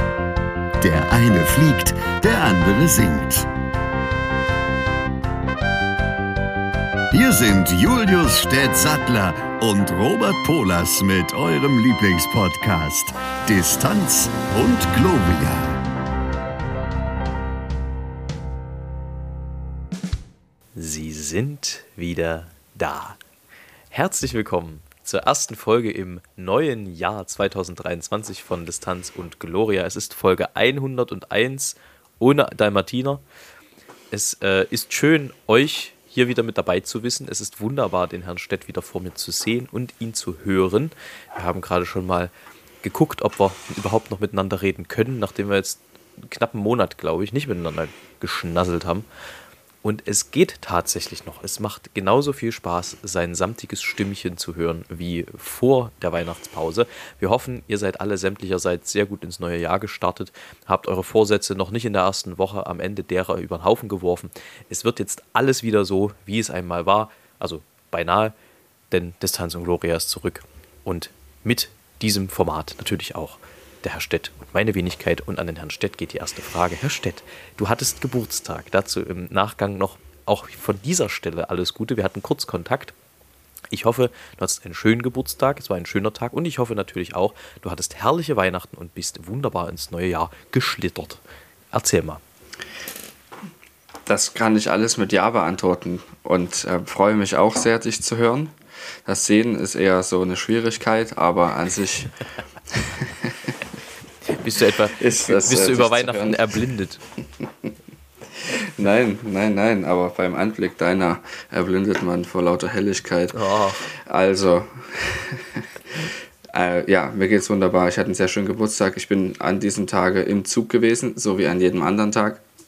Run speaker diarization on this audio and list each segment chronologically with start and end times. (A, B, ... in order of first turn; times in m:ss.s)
0:00.8-0:03.5 A
0:07.1-0:15.8 A
0:20.8-0:23.2 B
0:23.9-0:33.2 B
0:34.1-0:42.3 B
0:42.8-0:49.1 B
0:49.8-1:08.3 B
1:08.9-1:23.0 B
1:23.7-1:31.2 B
1:31.7-1:32.2 B
1:34.1-1:42.1 C
1:42.7-1:43.6 C
1:44.3-1:47.0 B
1:45.0-1:46.6 C
1:48.4-2:02.4 C
1:53.3-1:53.9 B